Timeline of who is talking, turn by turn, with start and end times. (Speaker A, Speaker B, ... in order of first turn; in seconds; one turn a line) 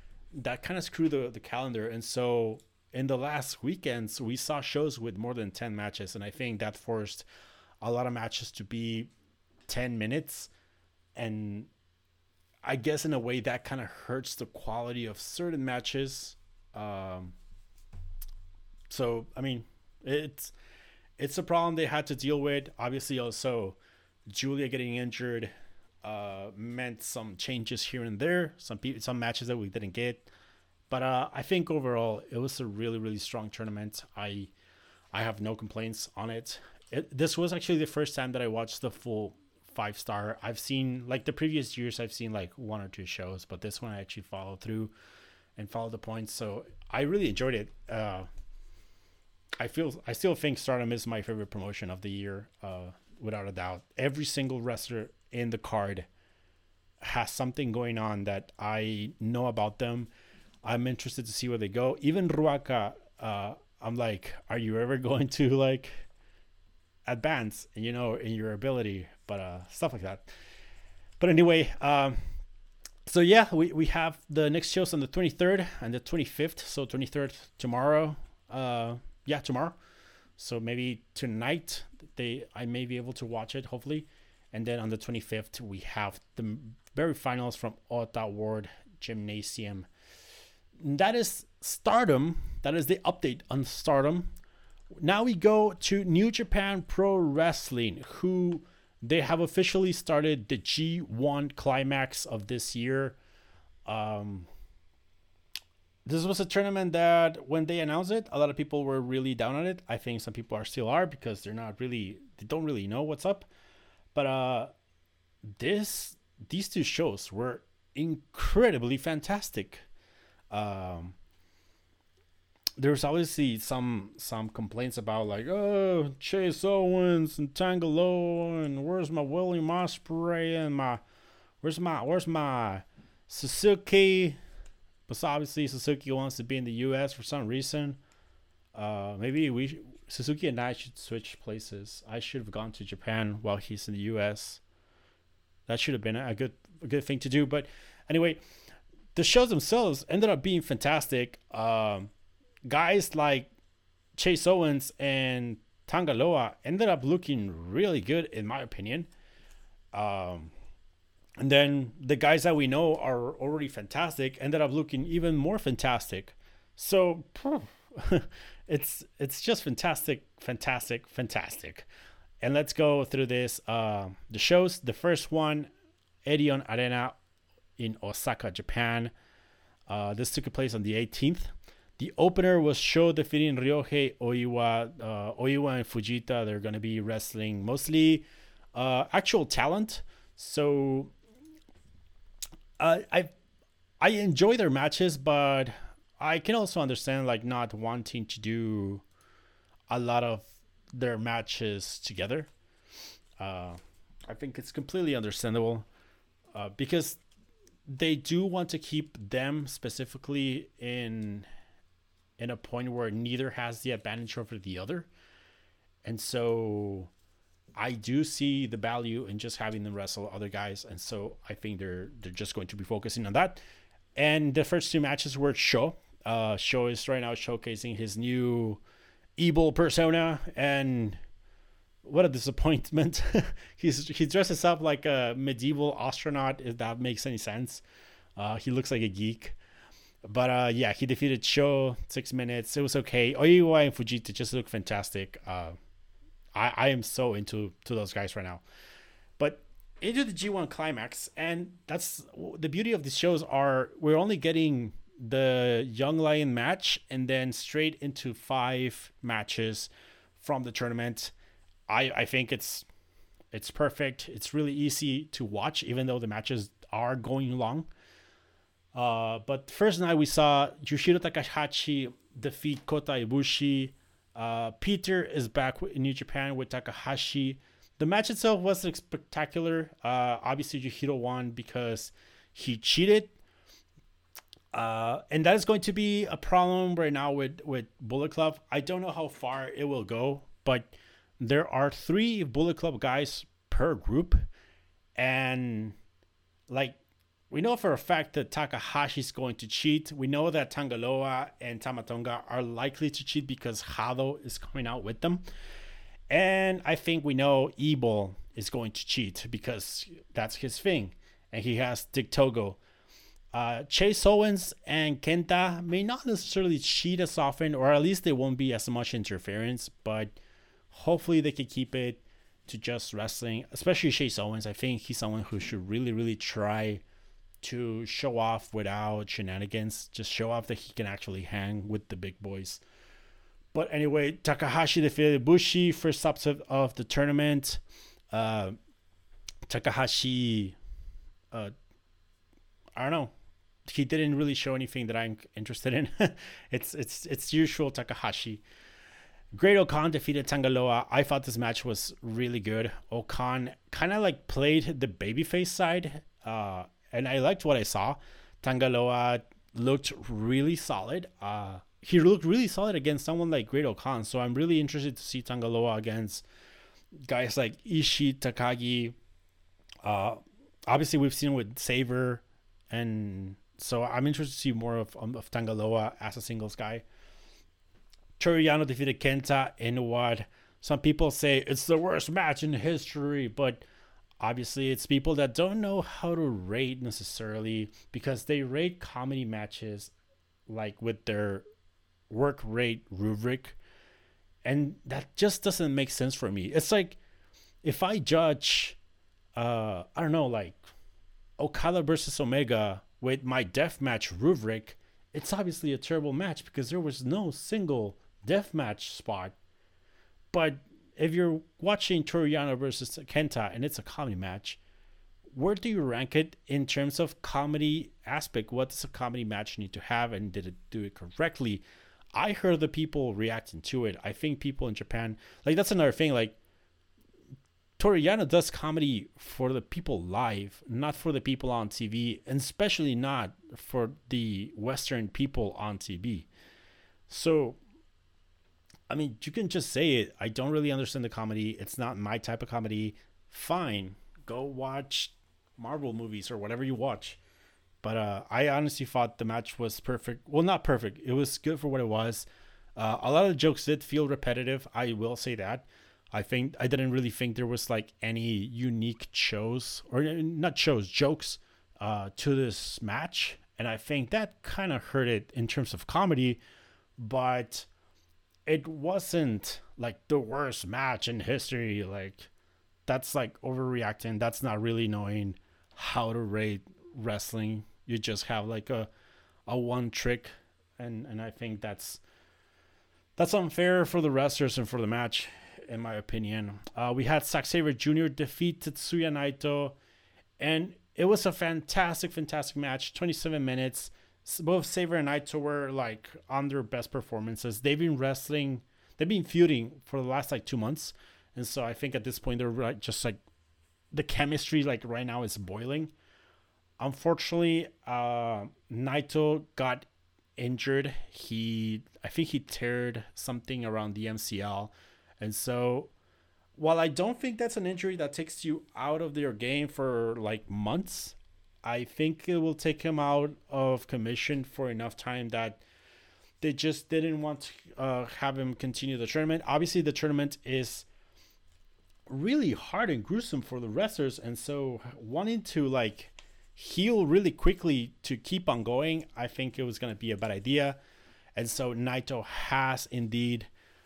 Speaker A: 0.3-7.2
Speaker A: 7.8-9.1
Speaker A: 9.7-10.5
Speaker A: 11.2-11.7
Speaker A: 12.6-17.4
Speaker A: 18.9-20.5
Speaker A: 21.2-23.8
Speaker A: 24.3-25.5
Speaker A: 26.0-30.3
Speaker A: 30.9-34.5
Speaker A: 35.1-44.9
Speaker A: 45.6-48.3
Speaker A: 49.6-56.1
Speaker A: 57.0-60.1
Speaker A: 60.6-66.1
Speaker A: 67.1-70.3
Speaker A: 71.2-72.2
Speaker A: 73.1-79.8
Speaker A: 80.4-89.9
Speaker A: 90.8-94.3
Speaker A: 95.0-103.2
Speaker A: 103.9-104.5
Speaker A: 106.1-113.5
Speaker A: 114.1-114.7
Speaker A: 115.6-119.9
Speaker A: 120.5-121.2
Speaker A: 122.8-131.0
Speaker A: 131.6-134.4
Speaker A: 135.1-138.0
Speaker A: 138.8-144.6
Speaker A: 145.7-148.4
Speaker A: 149.2-152.1
Speaker A: 152.7-153.5
Speaker A: 154.2-159.1
Speaker A: 159.9-160.5
Speaker A: 161.4-171.9
Speaker A: 172.4-175.7
Speaker A: 176.2-177.2
Speaker A: 177.8-179.1
Speaker A: 179.9-191.1
Speaker A: 192.8-193.3
Speaker A: 194.0-199.1
Speaker A: 199.9-202.5
Speaker A: 203.4-203.8
Speaker A: 204.3-205.9
Speaker A: 206.6-207.2
Speaker A: 207.9-211.5
Speaker A: 212.4-215.1
Speaker A: 216.0-217.1
Speaker A: 217.8-223.6
Speaker A: 224.2-228.8
Speaker A: 229.4-231.2
Speaker A: 232.0-237.8
Speaker A: 238.4-239.6
Speaker A: 240.3-245.8
Speaker A: 246.6-248.6
Speaker A: 249.4-261.3
Speaker A: 261.9-262.9
Speaker A: 263.5-267.9
Speaker A: 268.9-283.4
Speaker A: 284.7-294.4
Speaker A: 295.2-296.0
Speaker A: 296.7-297.0
Speaker A: 297.5-305.4
Speaker A: 306.3-312.8
Speaker A: 313.5-320.4
Speaker A: 320.9-327.0
Speaker A: 327.6-332.8
Speaker A: 333.7-337.8
Speaker A: 338.3-338.8
Speaker A: 339.7-340.8
Speaker A: 343.0-343.3
Speaker A: 343.9-348.6
Speaker A: 349.6-366.4
Speaker A: 367.1-369.2
Speaker A: 370.0-377.1
Speaker A: 378.4-383.9
Speaker A: 384.4-390.1
Speaker A: 390.7-391.6
Speaker A: 392.3-393.8
Speaker A: 394.6-397.2
Speaker A: 397.8-399.0
Speaker A: 399.6-400.9
Speaker A: 401.6-409.6
Speaker A: 410.5-414.8
Speaker A: 415.5-426.6
Speaker A: 428.0-436.5
Speaker A: 437.3-437.8
Speaker A: 439.1-447.4
Speaker A: 448.0-466.6
Speaker A: 467.2-467.9
Speaker A: 468.7-472.5
Speaker A: 473.1-479.1
Speaker A: 479.7-482.2
Speaker A: 483.4-490.0
Speaker A: 490.6-503.4
Speaker A: 504.1-506.1
Speaker A: 507.0-510.1
Speaker A: 510.6-516.1
Speaker A: 516.8-525.8
Speaker A: 526.6-531.1
Speaker A: 532.3-541.0
Speaker A: 541.6-543.7